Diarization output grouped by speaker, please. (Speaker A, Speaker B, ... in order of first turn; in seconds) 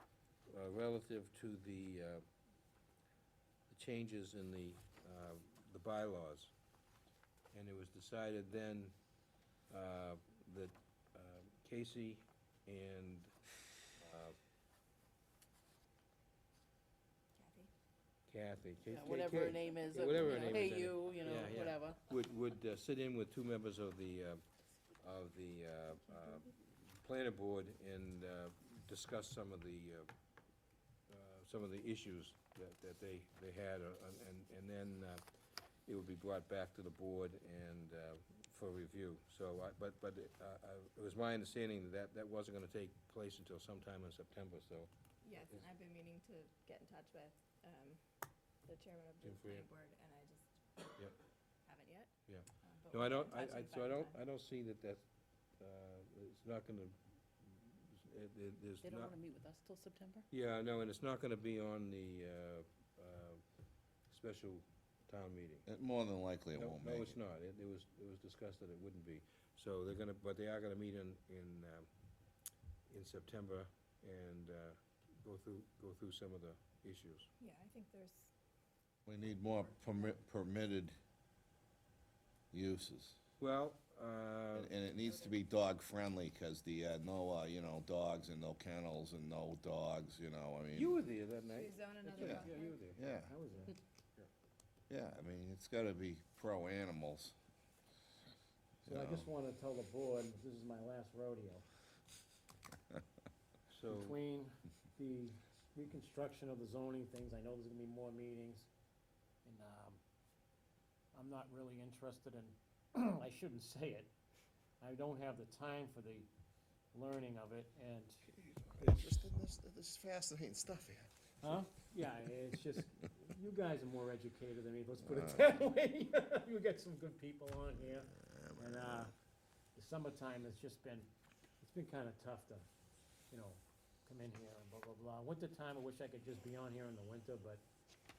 Speaker A: 0.5-2.2, 3.7-6.5, 7.5-8.9, 9.7-13.3, 14.0-14.4, 18.3-24.4, 25.0-30.1, 31.1-35.2, 35.9-44.9, 49.2-49.7, 52.3-55.0, 55.6-59.1, 60.3-63.4, 64.1-65.7, 66.5-71.9, 72.9-77.3, 83.4-84.7, 90.7-93.1, 103.7-104.2
Speaker B: 17.4-17.7, 45.2-48.0, 48.6-51.1, 51.6-52.1, 52.6-54.2, 77.4-78.3, 79.7-80.1, 91.5-93.0
Speaker C: 18.9-22.0, 58.8-60.3
Speaker D: 65.7-67.2, 79.1-81.0, 82.5-83.2, 84.5-91.0, 92.2-93.3, 94.9-97.3, 98.8-99.3, 118.4-121.5, 125.0-125.5, 127.8-129.1
Speaker E: 93.3-93.8, 98.9-101.7, 104.0-108.7, 109.4-110.0, 111.1-114.1, 114.8-116.3, 116.9-118.3, 121.4-129.1, 129.8-132.7, 133.3-137.6